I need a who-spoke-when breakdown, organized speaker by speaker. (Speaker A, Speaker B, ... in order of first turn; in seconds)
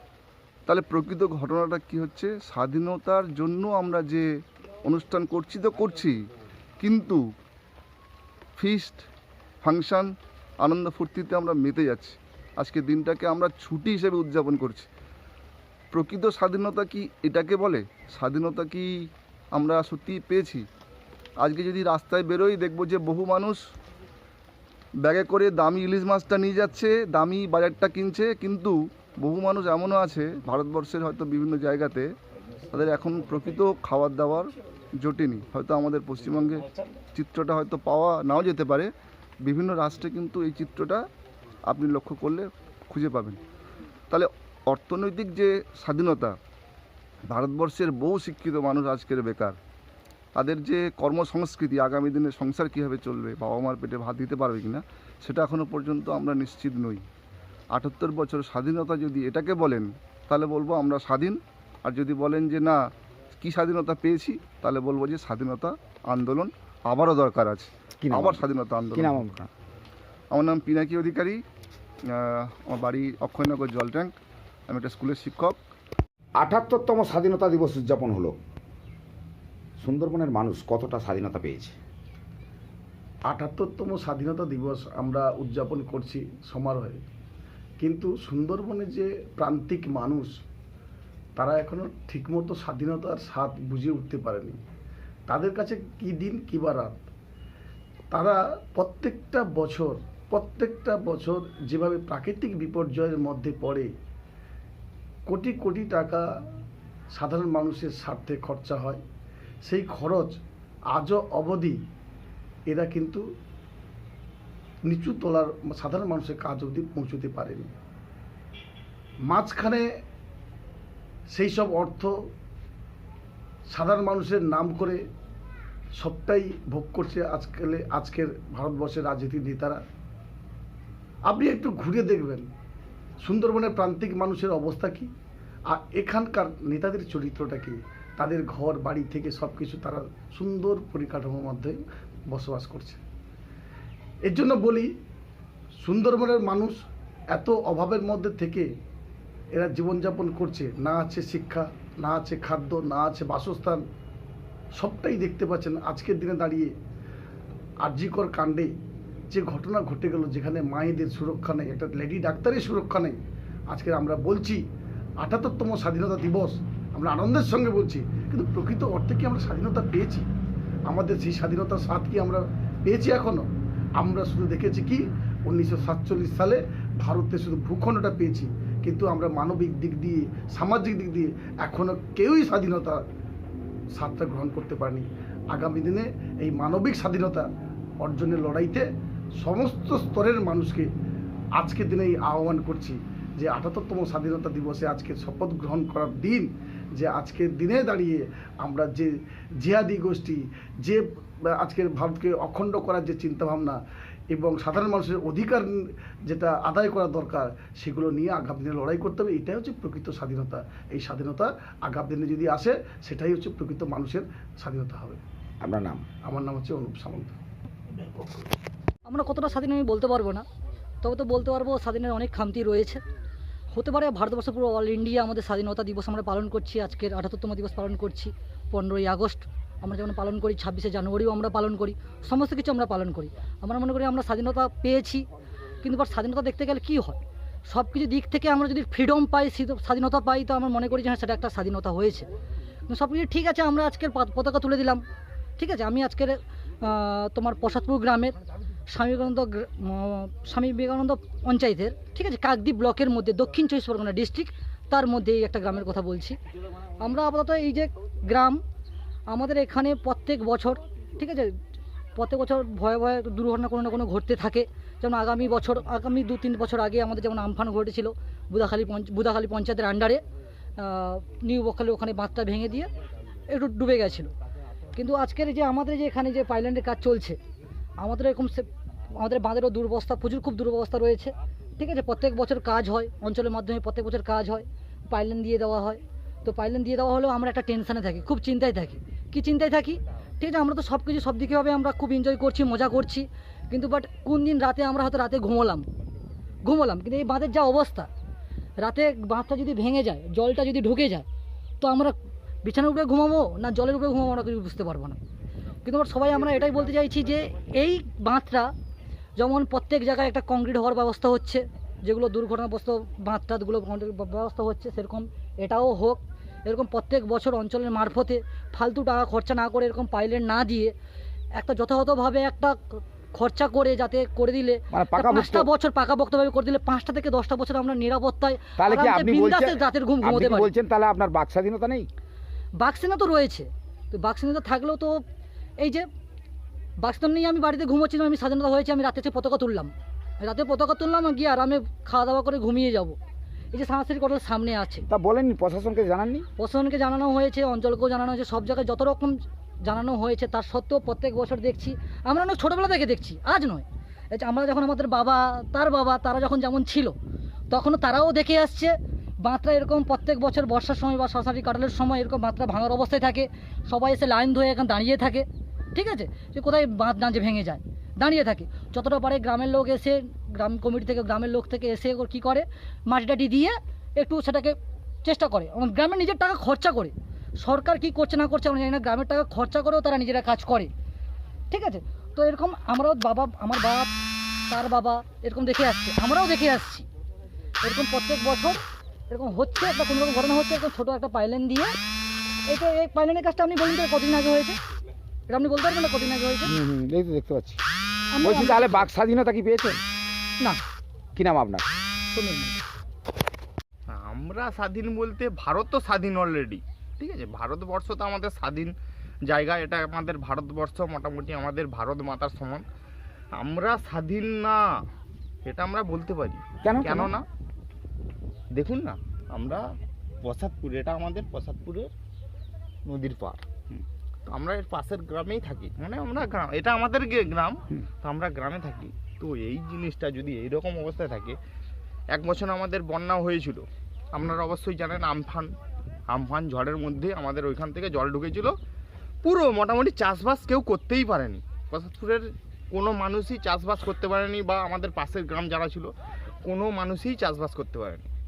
Speaker A: 0.7-4.3, 4.8-6.1, 6.8-7.2, 8.6-9.0, 9.6-14.9, 15.9-20.6, 21.4-23.6, 25.0-32.1, 32.7-34.5, 35.0-38.9, 39.4-41.0, 41.7-43.4, 44.1-46.4, 47.3-49.6, 50.4-57.0, 57.7-62.8, 63.4-69.3, 70.3-71.4, 72.1-74.1, 74.7-75.6
Speaker B: 68.0-68.4, 68.9-69.5, 76.4-78.4, 79.8-81.8, 215.6-216.0, 324.9-325.7, 328.8-332.1, 345.1-346.4, 396.6-397.8, 398.4-400.0, 401.4-401.9, 416.8-417.3
Speaker C: 83.3-87.0, 87.8-90.3, 91.3-94.6, 95.3-97.0, 98.1-103.9, 105.3-106.2, 107.1-109.0, 109.6-110.3, 110.9-111.8, 112.7-113.2, 114.8-117.7, 119.3-119.8, 121.3-122.1, 123.7-125.0, 126.0-129.8, 131.2-132.4, 133.2-135.1, 135.7-143.0, 144.2-144.9, 145.8-146.8, 147.3-148.7, 149.5-153.8, 154.7-156.7, 157.8-158.7, 159.3-163.2, 163.7-164.6, 165.2-170.3, 170.9-173.5, 174.0-183.0, 183.9-187.5, 188.0-188.8, 189.4-190.9, 191.6-203.8, 204.3-215.2, 216.2-217.4
Speaker D: 219.1-220.4, 221.0-223.0, 223.7-235.3, 235.8-242.3, 242.9-245.0, 245.6-248.4, 248.9-256.4, 257.0-258.6, 259.3-261.5, 262.1-270.2, 270.8-272.9, 273.5-274.3, 274.9-277.4, 278.0-278.6, 279.2-295.9, 296.6-298.1, 298.8-301.2, 301.8-305.2, 305.8-308.7, 309.4-320.9, 321.6-330.7, 332.8-335.2, 335.8-336.1, 337.0-343.1, 343.7-345.0, 346.6-357.1, 357.7-380.9, 381.7-384.1, 384.7-387.1, 387.8-391.9, 392.7-394.8, 395.5-396.7, 398.3-399.1, 402.3-402.8
Speaker E: 404.1-408.9, 409.4-412.8, 413.5-414.8, 415.6-417.4, 418.7-419.8, 420.4-422.1, 423.0-423.6, 424.5-431.6, 432.3-435.7, 436.3-438.8, 439.4-446.1, 446.6-448.2